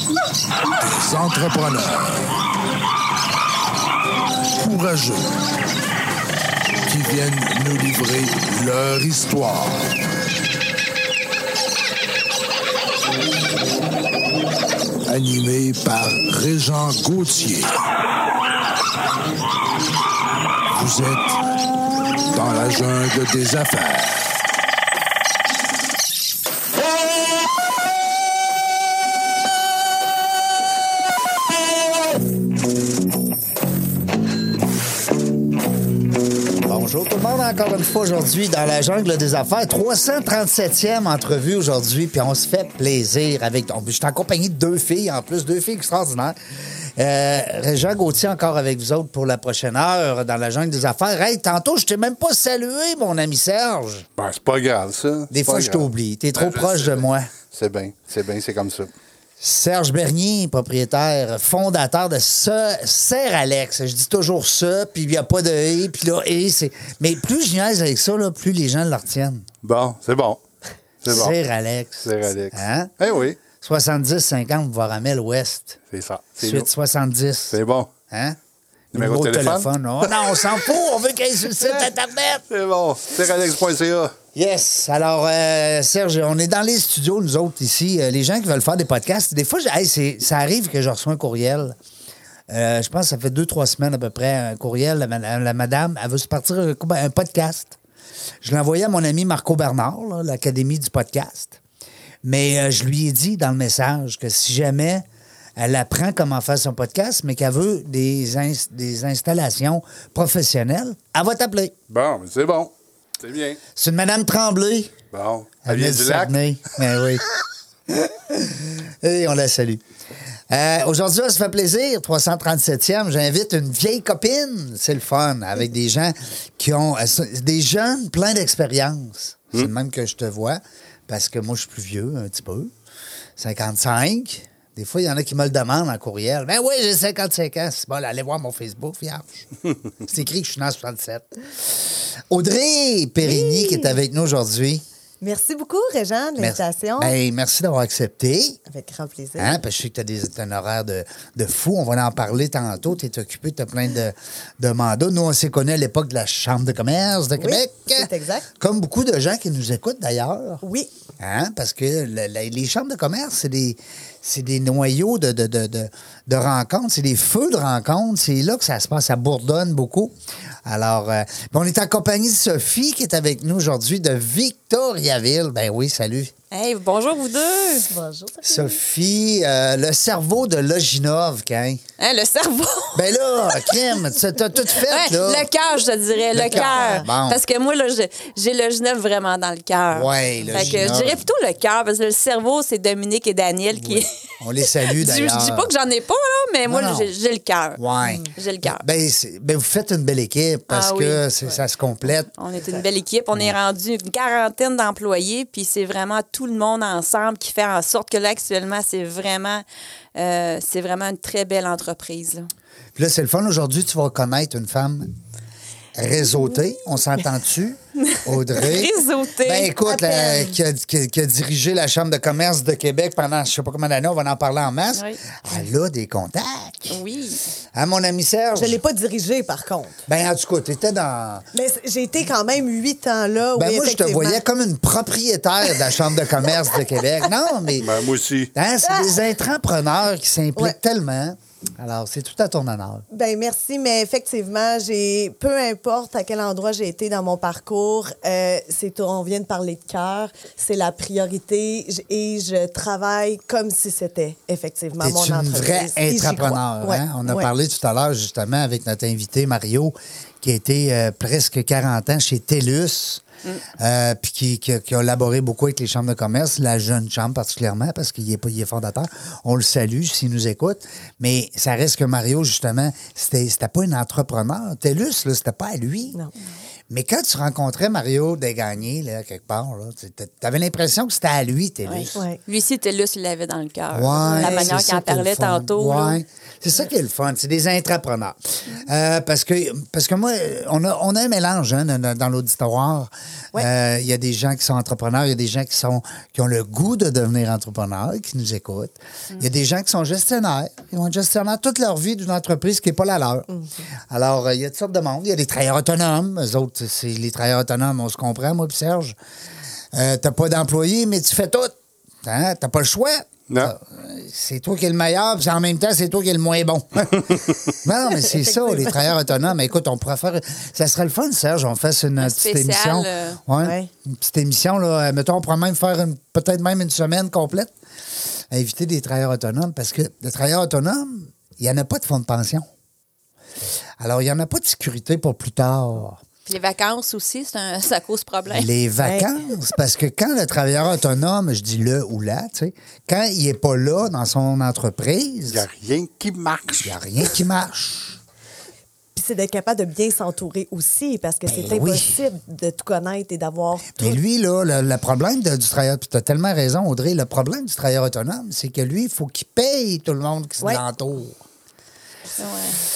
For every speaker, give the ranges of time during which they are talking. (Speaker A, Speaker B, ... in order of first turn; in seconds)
Speaker A: 0.8-2.3, 4.6-5.3, 6.8-9.8, 15.1-17.7, 20.7-21.4, 22.3-24.4
Speaker B: 36.6-46.4, 47.0-54.1, 55.3-57.3, 59.4-69.5, 71.1-72.9, 73.6-75.8, 76.4-77.6, 78.1-78.4, 78.9-82.4, 84.3-91.8, 92.5-97.8, 98.4-101.6, 102.2-105.0, 105.6-111.7, 113.8-114.9, 115.6-117.3, 117.9-119.8, 120.5-132.7, 133.4-144.8, 146.4-148.6, 149.4-160.6, 161.2-170.1, 170.7-176.3, 178.4-181.8, 182.9-185.5, 186.3-187.4, 189.9-191.2, 193.8-195.7, 196.7-197.1, 197.8-202.3, 213.0-215.1, 215.9-227.0, 227.8-228.8, 230.1-231.4, 233.6-238.0, 238.6-243.1, 255.0-263.2, 263.8-276.2, 276.9-282.2, 283.9-303.5, 304.1-309.1, 309.9-327.7, 328.5-332.6, 334.0-336.2, 338.5-345.7, 346.8-348.2, 351.5-352.1, 354.0-361.4
Speaker C: 54.2-58.9, 69.6-70.4, 71.0-71.3, 72.0-73.4, 75.9-76.7, 77.5-77.9, 78.9-79.7, 82.5-84.1, 111.9-113.6, 115.1-116.4, 237.8-238.5, 313.5-313.7, 345.5-346.9
Speaker D: 143.2-144.0, 145.2-147.2, 148.7-149.6, 157.3-158.5, 160.6-160.9, 177.8-178.7, 186.4-187.1, 190.4-190.8, 198.0-198.3, 219.8-220.6, 228.6-230.0, 231.5-234.4, 243.1-257.5, 282.1-282.4, 284.2-284.8, 303.5-303.8, 318.1-319.1, 323.6-323.9, 339.0-339.3, 349.1-354.2
Speaker E: 176.5-177.9, 182.0-183.1, 184.8-197.8, 198.3-198.8, 200.7-201.6, 202.4-209.6, 210.2-212.5, 218.1-219.7, 224.9-225.2, 226.9-227.4, 281.9-286.2, 322.2-323.4, 336.4-338.7, 362.4-362.8